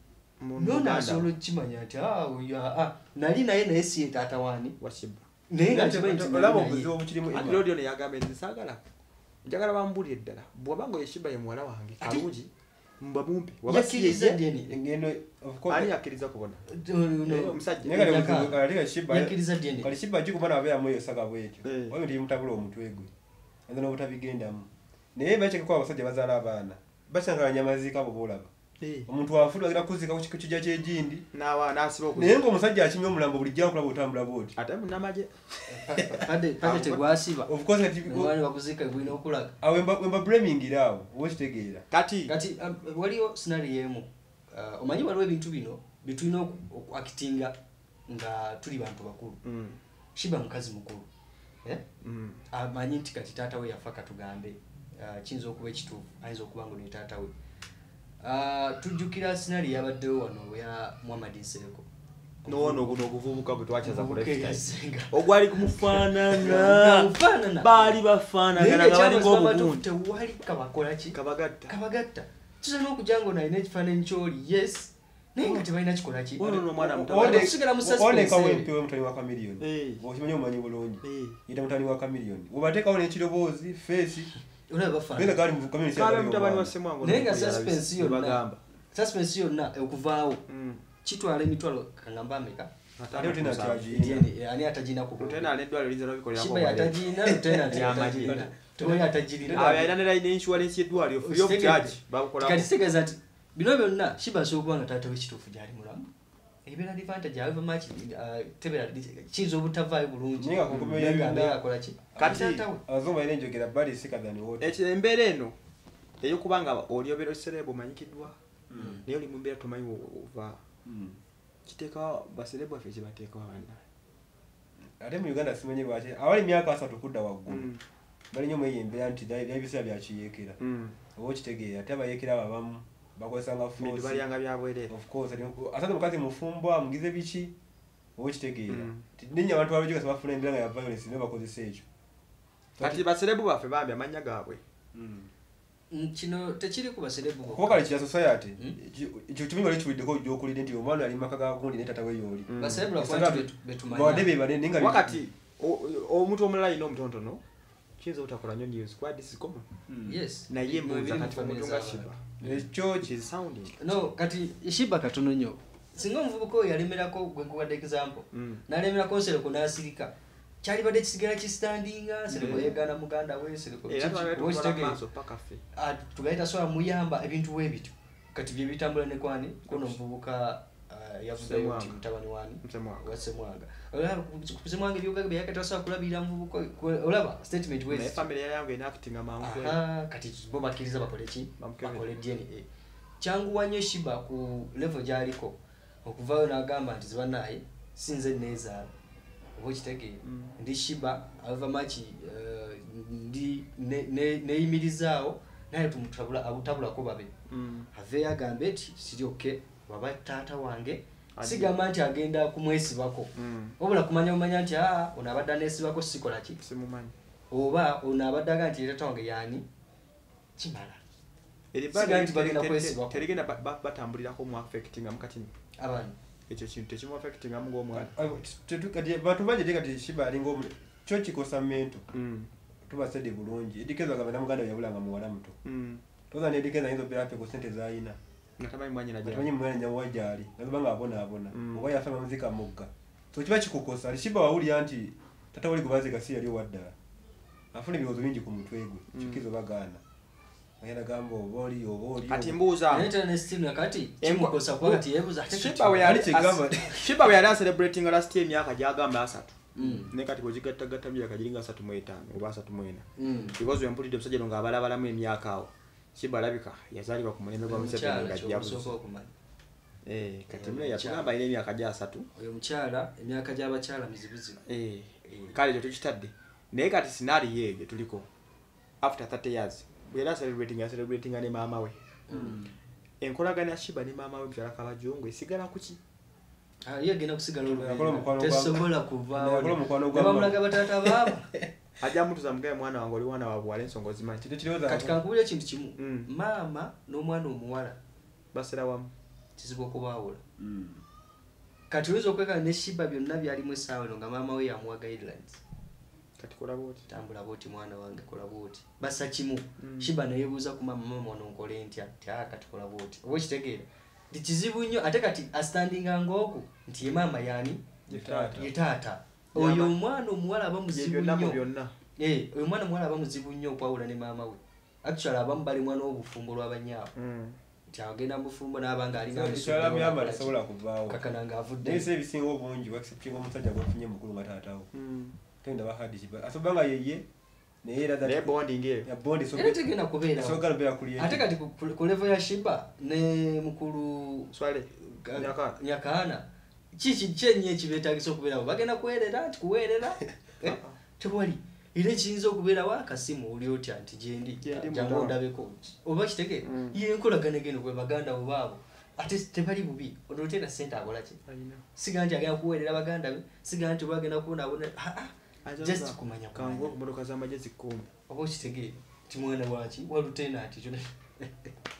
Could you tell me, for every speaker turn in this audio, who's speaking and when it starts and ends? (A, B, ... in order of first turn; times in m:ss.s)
0:00.4-0:01.3 A
0:00.6-0:04.8 B
0:04.8-0:05.2 A
0:05.5-0:06.9 B
0:05.7-0:07.7 C
0:07.3-0:08.8 A
0:09.4-0:14.4 A
0:12.0-0:12.3 B
0:13.7-0:15.9 C
0:13.7-0:14.8 B
0:15.7-0:16.6 A
0:16.7-0:19.9 B
0:17.3-0:18.0 A
0:17.8-0:23.1 C
0:21.6-0:22.0 A
0:23.7-0:28.5 C
0:28.8-0:29.1 A
0:29.1-0:31.2 C
0:31.3-0:32.4 A
0:32.1-0:34.6 C
0:34.6-0:35.5 A
0:35.7-0:37.5 B
0:36.6-0:37.0 A
0:37.5-0:38.3 C
0:38.0-0:39.5 B
0:39.6-0:41.8 C
0:41.9-0:42.4 A
0:42.3-0:47.6 B
0:48.1-0:49.4 B
0:49.4-0:49.8 A
0:50.2-0:51.1 B
0:52.0-0:52.4 A
0:52.5-0:57.3 B
0:58.2-1:01.9 B
1:02.4-1:03.0 B
1:02.5-1:09.8 A
1:03.8-1:08.0 B
1:08.5-1:11.2 B
1:11.1-1:11.8 A
1:11.7-1:16.6 B
1:16.4-1:17.5 A
1:16.5-1:24.3 C
1:17.1-1:18.7 B
1:19.6-1:20.0 A
1:21.0-1:21.4 A
1:24.7-1:25.4 B
1:25.1-1:26.7 C
1:25.9-1:28.6 A
1:27.0-1:30.4 B
1:30.5-1:30.8 A
1:31.0-1:32.7 B
1:33.0-1:33.9 A
1:33.1-1:34.2 C
1:33.9-1:35.5 B
1:35.2-1:37.0 A
1:36.3-1:40.0 B
1:37.6-1:42.7 A
1:37.7-1:38.5 C
1:41.2-1:46.1 B
1:46.6-1:52.8 B
1:50.4-1:51.6 C
1:52.2-1:54.8 C
1:52.2-1:52.6 A
1:54.6-1:55.6 A
1:56.2-1:58.4 A
1:58.7-1:59.0 C
1:58.8-1:59.0 B
1:59.0-2:00.6 A
2:00.9-2:01.2 C
2:01.7-2:03.8 A
2:05.0-2:07.7 C
2:07.5-2:07.8 A
2:08.3-2:10.6 C
2:10.6-2:11.0 A
2:11.2-2:14.2 C
2:13.8-2:14.9 A
2:14.9-2:17.5 C
2:18.2-2:21.8 C
2:18.7-2:19.0 A
2:22.8-2:23.0 C
2:22.8-2:24.6 A
2:24.9-2:25.3 C
2:25.9-2:27.9 B
2:27.5-2:35.2 C
2:32.5-2:32.9 A
2:32.6-2:34.3 B
2:34.7-2:37.4 A
2:38.0-2:39.7 A
2:39.9-2:40.2 C
2:40.1-2:42.7 B
2:40.5-2:42.2 A
2:42.4-2:43.1 C
2:43.0-2:43.8 A
2:43.8-2:55.0 B
2:48.3-2:48.6 A
2:52.3-2:52.8 A
2:53.9-2:55.6 A
2:55.7-3:08.3 B
2:59.7-3:00.0 A
3:01.4-3:02.0 A
3:02.6-3:03.2 A
3:07.9-3:09.8 A
3:09.4-3:12.7 B
3:11.6-3:12.1 A
3:13.2-3:18.9 B
3:19.6-3:27.3 B
3:20.2-3:20.5 A
3:27.5-3:27.9 A
3:27.9-3:36.6 B
3:31.4-3:31.8 A
3:33.4-3:33.8 A
3:36.6-3:37.2 A
3:37.5-3:39.7 B
3:40.6-3:41.0 B
3:41.7-3:45.5 A
3:41.9-3:43.3 B
3:45.8-3:46.2 B
3:46.5-3:48.1 A
3:47.9-3:52.0 C
3:52.1-3:52.5 A
3:52.9-3:55.6 C
3:55.6-3:56.0 A
3:56.3-3:58.2 C
3:58.6-3:59.5 A
3:59.2-4:06.9 C
4:01.5-4:01.9 A
4:07.7-4:10.0 C
4:10.8-4:12.6 C
4:12.2-4:13.1 A
4:12.9-4:16.3 B
4:14.2-4:29.0 A
4:16.0-4:17.1 C
4:19.8-4:20.1 B
4:23.2-4:23.6 B
4:27.7-4:29.3 B
4:30.0-4:32.3 A
4:30.5-4:31.3 B
4:32.4-4:34.6 B
4:34.7-4:38.3 A
4:35.2-4:35.6 B
4:39.0-4:42.0 A
4:42.3-4:42.7 B
4:43.2-4:46.0 A
4:46.8-4:51.5 B
4:47.7-4:51.2 C
4:52.0-4:54.4 A
4:54.4-4:55.2 C
4:54.8-4:58.0 B
4:56.0-4:56.3 A
4:58.5-4:59.1 A
4:59.6-5:00.4 B
5:00.6-5:01.0 C
5:01.9-5:05.6 B
5:06.4-5:07.1 A
5:07.1-5:17.8 B
5:09.8-5:10.2 A
5:18.1-5:18.7 A
5:18.1-5:18.7 C
5:18.5-5:21.6 B
5:19.5-5:20.0 A
5:20.9-5:22.0 A
5:22.2-5:27.1 B
5:27.2-5:27.6 A
5:27.9-5:32.1 B
5:29.3-5:31.2 C
5:31.8-5:34.9 C
5:34.9-5:35.4 A
5:35.6-5:37.2 C
5:37.8-5:38.5 C
5:38.2-5:39.1 A
5:39.1-5:39.8 C
5:39.5-5:40.6 B
5:40.4-5:41.4 C
5:41.2-6:01.4 B
5:44.5-5:45.8 A
5:50.6-5:51.0 A
5:54.6-5:55.4 A
5:56.7-5:57.0 A
6:01.5-6:01.8 A
6:02.0-6:07.0 B
6:05.6-6:08.1 A
6:08.3-6:11.7 B